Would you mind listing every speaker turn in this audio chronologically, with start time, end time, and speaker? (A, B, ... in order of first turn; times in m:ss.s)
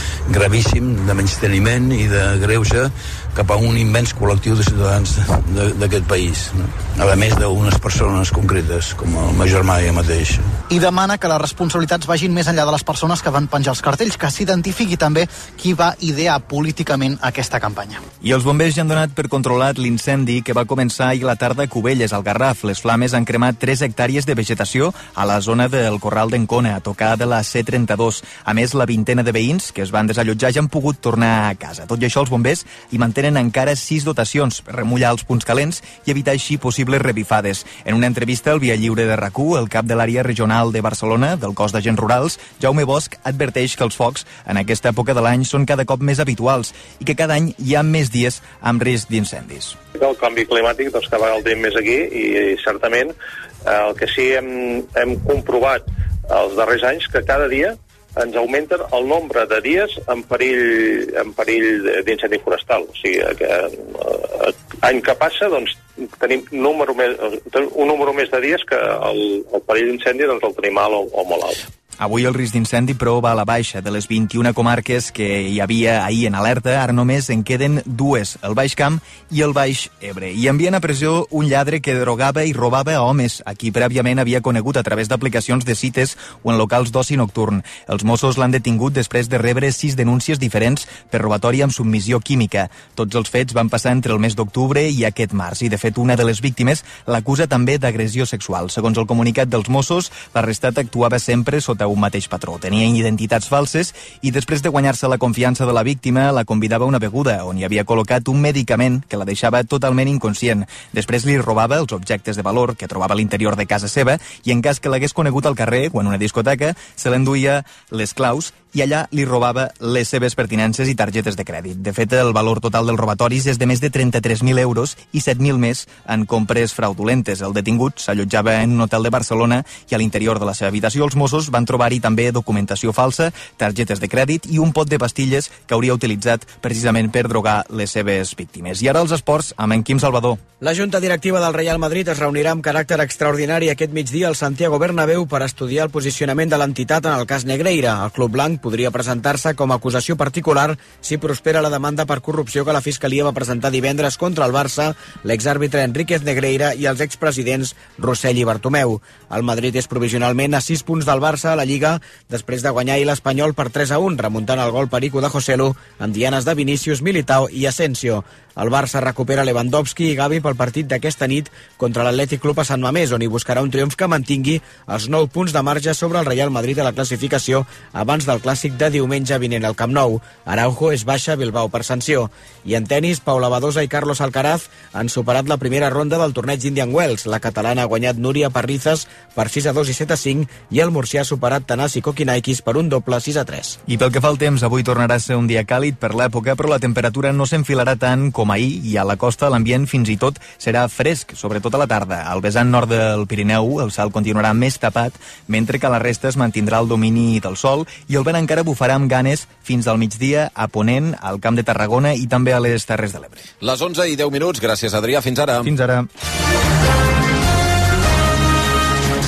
0:00.2-0:10.5 A
0:10.7-0:18.0 B
0:18.2-0:49.8 C
0:49.9-1:11.6 D
1:12.0-2:20.4 C
2:20.6-3:13.8 E
3:13.8-3:33.5 C
3:33.6-3:35.7 F
3:35.6-3:36.1 C